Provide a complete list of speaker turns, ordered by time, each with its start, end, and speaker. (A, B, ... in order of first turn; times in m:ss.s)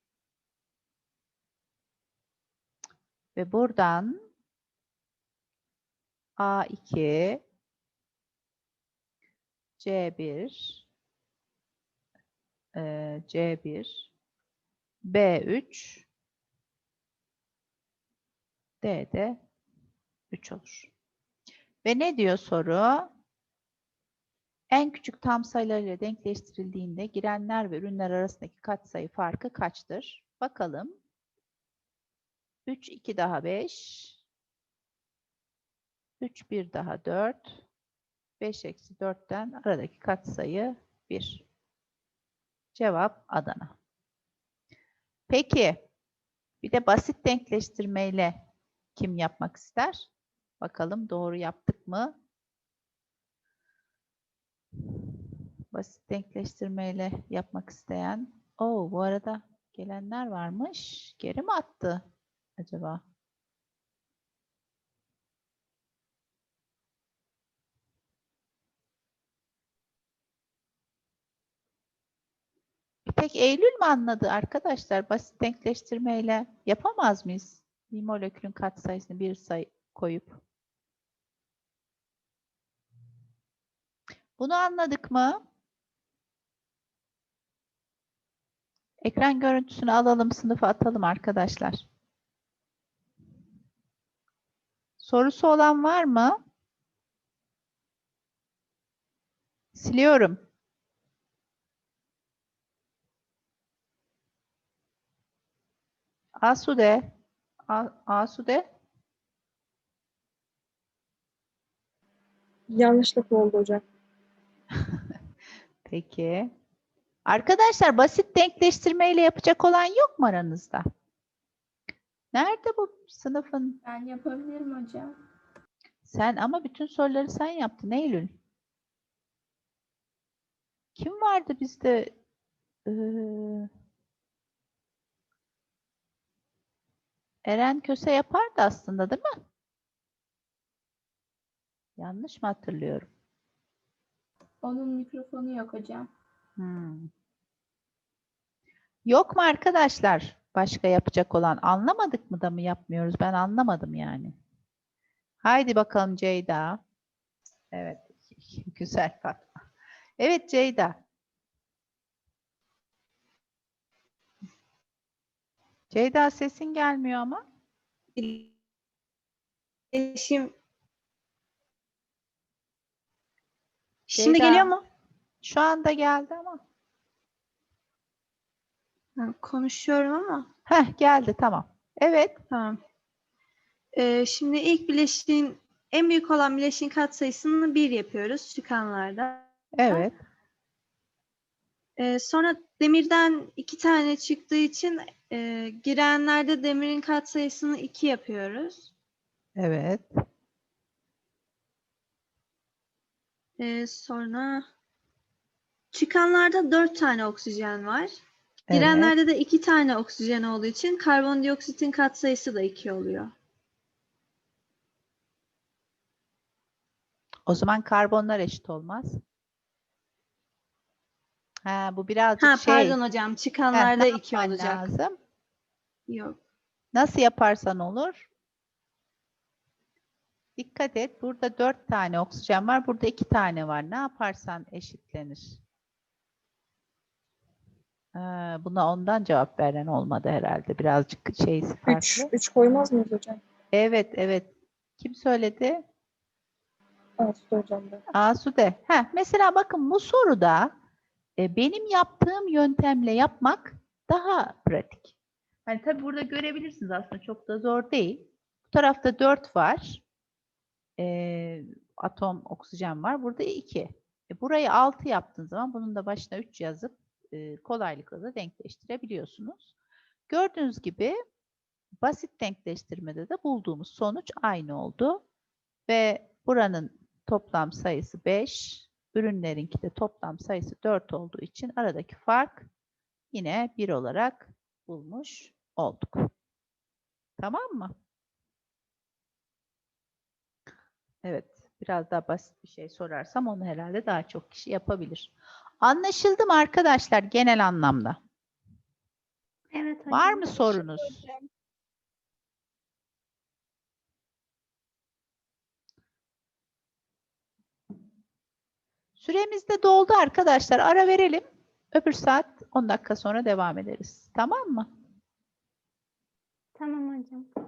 0:03.4-0:04.2 A
0:06.4-0:07.4 A
0:09.8-0:10.8 A
0:12.7-0:14.1 A
0:15.0-0:16.0 A
0:18.8-0:19.4 A
0:20.3-0:20.9 A
0:21.8-0:23.1 A
0:24.7-0:31.0 A
0:32.6-0:34.2 A
0:36.2-0:37.6 A
0:38.4-0:41.4 A
0:42.7-0:43.7 A
0:45.3-0:45.8 A
0:46.6-0:48.4 A
0:48.9-0:50.1 A
0:50.6-0:52.2 A
0:55.7-1:02.0 A
1:02.6-1:03.0 A
1:13.0-1:20.4 A
1:24.4-1:25.4 A
1:29.0-1:31.8 A
1:35.0-1:36.4 A
1:39.7-1:40.4 A
1:46.4-1:47.1 A
1:47.7-1:48.6 A
1:52.7-1:53.8 B
1:54.7-1:55.0 A
1:55.8-1:56.5 A
1:57.2-2:00.9 A
2:02.3-2:03.8 A
2:03.8-2:05.2 C
2:06.0-2:08.3 A
2:11.0-2:12.1 A
2:12.8-2:13.7 A
2:17.4-2:19.3 A
2:22.0-2:23.1 A
2:24.6-2:26.1 C
2:26.6-2:27.1 A
2:29.0-2:34.3 A
2:35.4-2:36.8 A
2:37.7-2:39.5 A
2:40.2-2:41.0 A
2:45.9-2:47.4 A
2:48.2-2:48.5 D
2:49.9-2:50.5 D
2:54.1-2:54.8 D
2:54.2-2:54.7 A
2:55.4-2:56.6 A
2:59.2-3:00.5 D
3:00.7-3:02.4 A
3:02.5-3:02.8 D
3:03.9-3:10.1 D
3:09.7-3:10.2 A
3:12.0-3:18.9 D
3:19.6-3:20.1 A
3:23.6-3:24.7 D
3:25.9-3:28.2 D
3:28.7-3:29.1 A
3:28.7-3:33.3 D
3:37.5-3:39.2 A
3:41.6-3:43.0 A
3:42.4-3:44.9 D
3:43.7-3:45.2 A
3:46.1-3:46.4 D
3:46.9-3:48.3 A
3:50.6-3:55.6 A
3:58.1-4:02.3 A
4:01.9-4:03.4 B
4:03.7-4:05.8 A
4:07.2-4:08.0 B
4:08.1-4:10.7 A
4:11.4-4:15.1 A
4:15.6-4:20.0 A
4:21.0-4:29.7 A
4:30.3-4:31.2 A
4:32.0-4:35.2 A
4:35.9-4:42.7 A
4:43.3-4:46.3 A
4:47.4-4:47.9 A
4:51.2-4:58.2 A
4:59.7-5:01.3 E
5:00.1-5:01.2 A
5:09.2-5:14.9 A
5:16.7-5:17.5 E